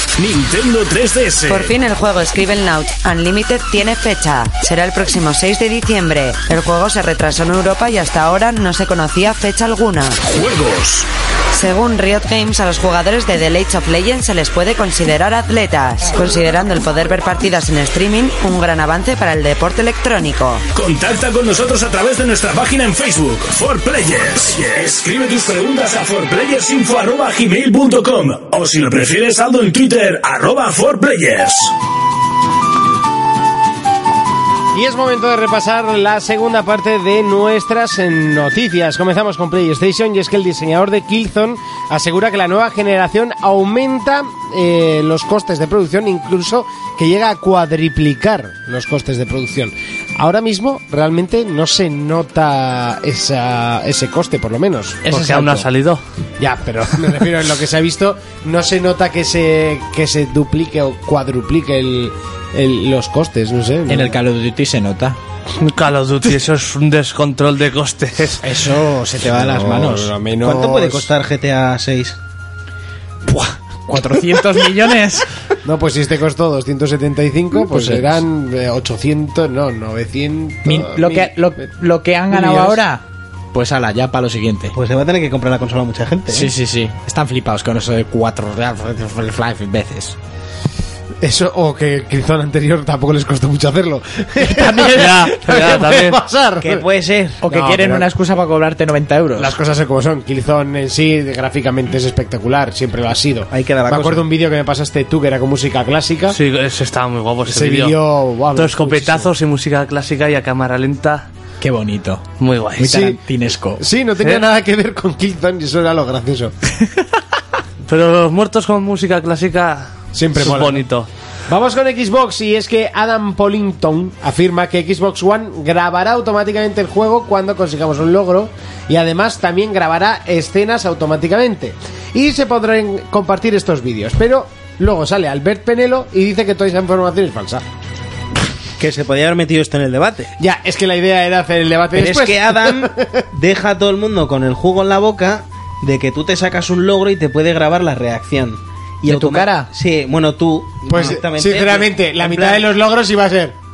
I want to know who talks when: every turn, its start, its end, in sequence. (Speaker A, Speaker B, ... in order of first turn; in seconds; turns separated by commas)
Speaker A: 0.2-1.7, Speaker B: 1.5-10.2, Speaker A: 10.2-11.1, Speaker B: 11.5-20.6, Speaker A: 20.8-31.7, Speaker C: 34.7-55.0, Speaker D: 55.0-55.7, Speaker E: 55.1-56.0, Speaker C: 56.4-64.2, Speaker D: 63.9-65.2, Speaker E: 65.6-68.4, Speaker D: 68.4-70.1, Speaker C: 69.3-71.1, Speaker F: 70.4-72.2, Speaker D: 73.3-75.3, Speaker C: 75.7-81.3, Speaker D: 77.7-78.2, Speaker D: 80.7-83.0, Speaker C: 82.3-82.8, Speaker D: 83.5-84.8, Speaker F: 84.7-86.5, Speaker D: 86.3-90.2, Speaker C: 91.2-96.9, Speaker D: 94.4-95.7, Speaker E: 94.8-96.2, Speaker F: 96.6-97.4, Speaker D: 97.4-99.5, Speaker C: 97.5-98.1, Speaker C: 99.4-106.4, Speaker F: 103.5-104.2, Speaker E: 106.3-108.0, Speaker C: 107.5-109.3, Speaker E: 108.5-111.3, Speaker D: 111.6-112.2, Speaker E: 112.4-113.1, Speaker D: 112.8-113.8, Speaker C: 113.8-116.5, Speaker E: 117.9-121.1, Speaker C: 120.1-120.8, Speaker C: 121.5-137.7, Speaker F: 138.8-140.3, Speaker C: 140.4-143.2, Speaker F: 141.9-152.6, Speaker D: 149.1-149.7, Speaker C: 150.9-153.5